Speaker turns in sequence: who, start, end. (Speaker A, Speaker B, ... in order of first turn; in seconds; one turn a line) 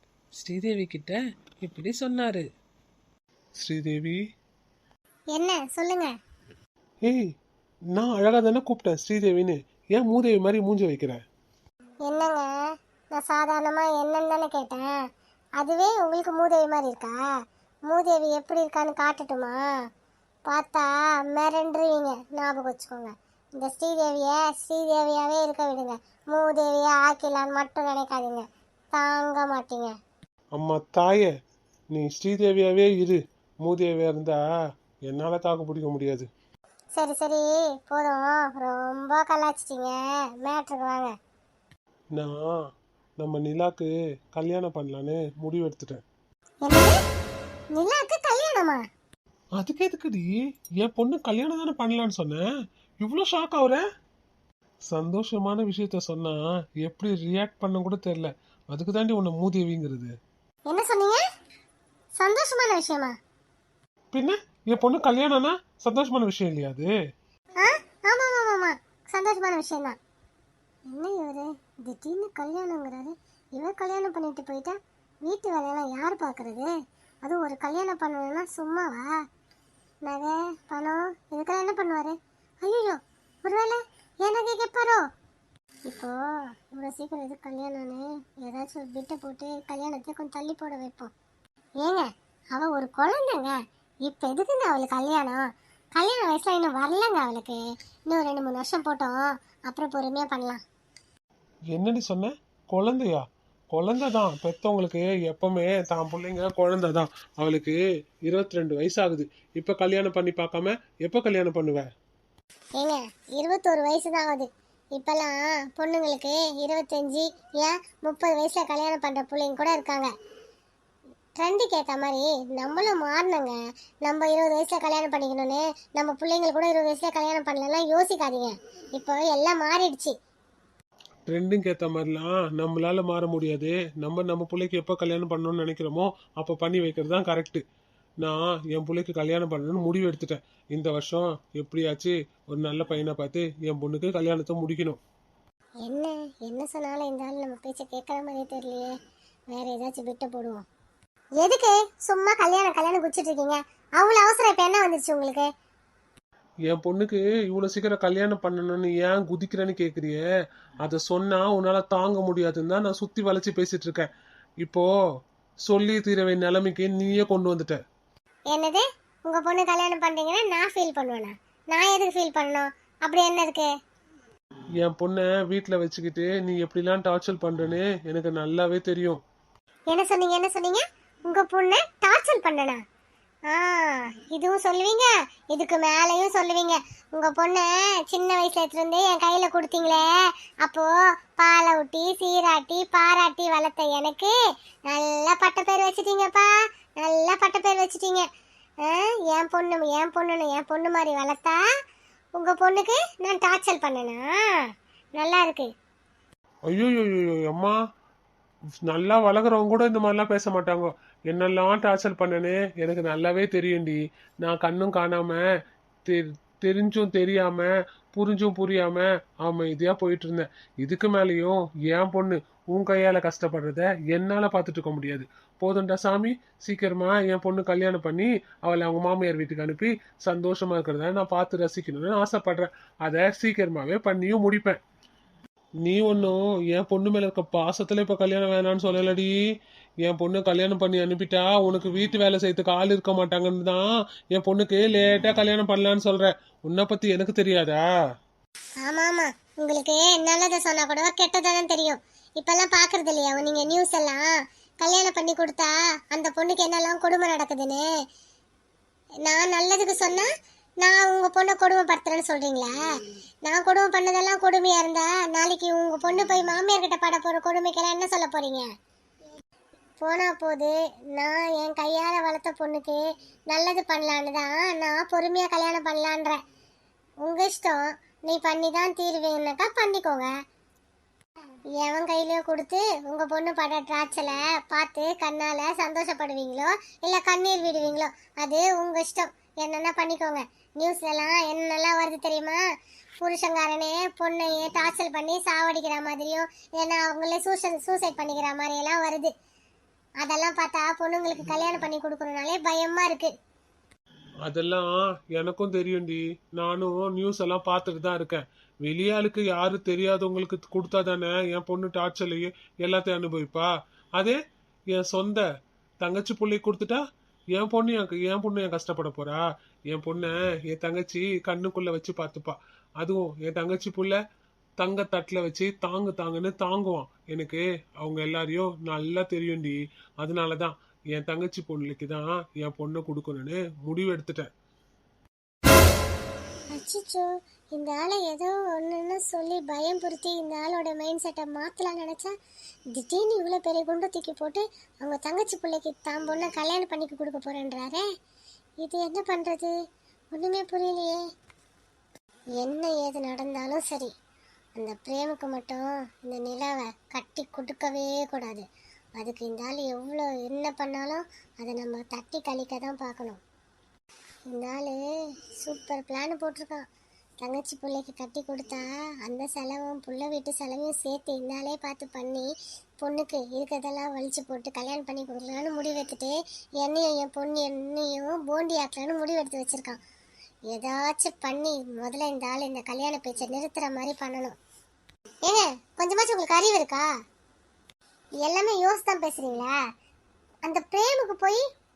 Speaker A: 0.3-2.4
Speaker A: 3.6-4.2
Speaker B: 5.3-6.1
Speaker A: 7.9-11.2
Speaker B: 12.1-12.5
Speaker B: 13.1-14.9
Speaker B: 15.6-17.2
Speaker B: 17.9-19.6
Speaker B: 20.5-29.9
Speaker A: 30.6-31.3
Speaker A: 31.9-34.4
Speaker A: 35.1-36.3
Speaker B: 37.0-41.1
Speaker A: 42.1-42.5
Speaker A: 43.2-46.0
Speaker B: 46.6-47.0
Speaker B: 47.8-48.8
Speaker A: 49.6-52.4
Speaker A: 53.0-53.8
Speaker A: 54.9-60.1
Speaker B: 60.7-61.3
Speaker B: 62.2-63.1
Speaker A: 64.1-66.9
Speaker B: 67.6-70.0
Speaker B: 70.9-76.7
Speaker B: 77.2-79.1
Speaker B: 80.0-85.0
Speaker B: 85.9-91.1
Speaker B: 91.8-95.5
Speaker B: 96.0-100.6
Speaker A: 101.7-111.9
Speaker B: 112.8-120.1
Speaker B: 121.4-130.1
Speaker A: 131.3-137.6
Speaker A: 138.2-145.0
Speaker B: 145.8-148.9
Speaker B: 149.5-150.7
Speaker B: 151.4-155.5
Speaker A: 156.7-160.2
Speaker A: 160.8-164.1
Speaker A: 165.7-167.8
Speaker B: 168.5-173.7
Speaker A: 174.8-179.2
Speaker B: 179.9-182.8
Speaker B: 183.5-190.0
Speaker B: 190.6-194.3
Speaker B: 194.9-196.5
Speaker B: 197.0-198.3
Speaker B: 198.8-201.6
Speaker B: 202.4-204.7
Speaker B: 205.2-205.7
Speaker A: 206.7-207.8
Speaker A: 208.9-215.4
Speaker A: 216.1-234.8
Speaker A: 235.8-239.3
Speaker A: 240.0-247.8
Speaker B: 248.8-254.3
Speaker B: 254.8-257.9
Speaker B: 259.2-260.3
Speaker B: 260.8-262.8
Speaker B: 263.4-268.7
Speaker B: 270.0-276.4
Speaker B: 277.2-280.3
Speaker B: 281.8-292.6
Speaker B: 293.2-299.3
Speaker B: 300.2-303.3
Speaker A: 304.4-314.4
Speaker A: 314.9-315.5
Speaker A: 316.0-317.0
Speaker A: 317.5-324.2
Speaker A: 324.8-334.5
Speaker B: 336.7-342.3
Speaker B: 342.9-348.1
Speaker B: 348.8-349.7
Speaker B: 350.3-351.2
Speaker B: 352.6-354.1
Speaker B: 354.8-358.6
Speaker B: 359.2-363.4
Speaker B: 364.5-365.0
Speaker B: 365.6-366.9
Speaker B: 367.4-372.5
Speaker B: 373.0-380.0
Speaker B: 380.7-384.6
Speaker B: 385.4-387.1
Speaker B: 388.4-389.8
Speaker B: 390.7-391.6